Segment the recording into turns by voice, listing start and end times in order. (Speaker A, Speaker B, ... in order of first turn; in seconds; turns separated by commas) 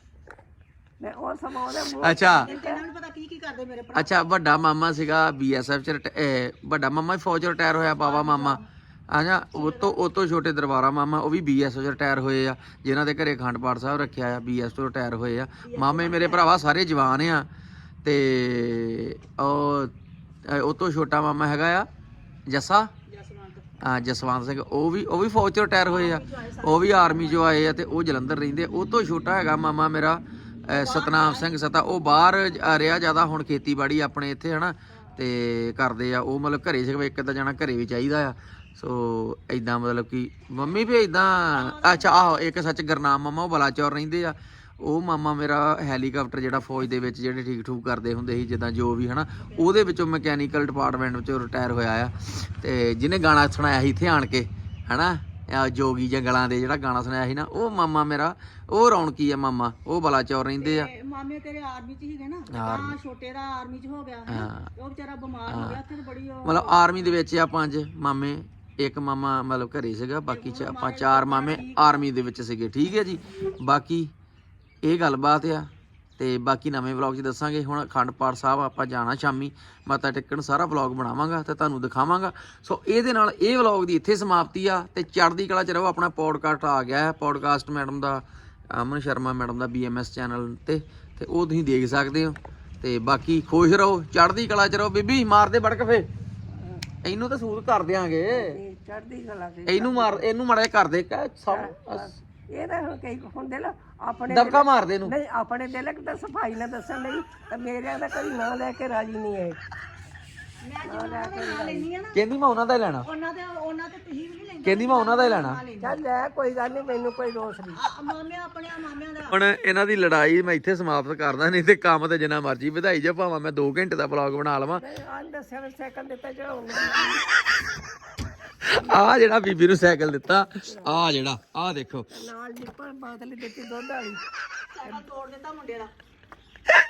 Speaker A: 1.0-2.8, Speaker B: 2.0-2.5, Speaker C: 2.4-4.2, Speaker B: 3.9-17.5, Speaker C: 8.0-8.6, Speaker C: 9.5-10.0, Speaker C: 15.6-16.6, Speaker B: 18.0-19.9, Speaker B: 20.4-21.9, Speaker B: 22.5-22.9, Speaker C: 23.1-23.7, Speaker B: 23.8-60.9, Speaker C: 25.9-27.6, Speaker C: 30.7-31.6, Speaker C: 41.4-42.2, Speaker C: 60.6-66.9, Speaker B: 62.5-63.0, Speaker B: 64.3-64.7, Speaker B: 65.5-65.8, Speaker B: 66.4-74.1, Speaker C: 70.3-72.0, Speaker B: 74.8-96.1, Speaker A: 96.5-96.8, Speaker B: 97.0-98.6, Speaker A: 98.3-100.3, Speaker B: 99.7-102.1, Speaker A: 101.5-109.6, Speaker B: 104.3-105.1, Speaker C: 110.6-112.2, Speaker A: 110.8-111.9, Speaker B: 112.1-113.1, Speaker C: 113.0-116.0, Speaker B: 114.6-115.6, Speaker A: 115.8-117.8, Speaker C: 117.8-119.4, Speaker B: 119.3-124.8, Speaker A: 124.8-127.2, Speaker B: 128.6-132.1, Speaker A: 130.6-131.0, Speaker A: 132.1-134.2, Speaker C: 134.7-135.9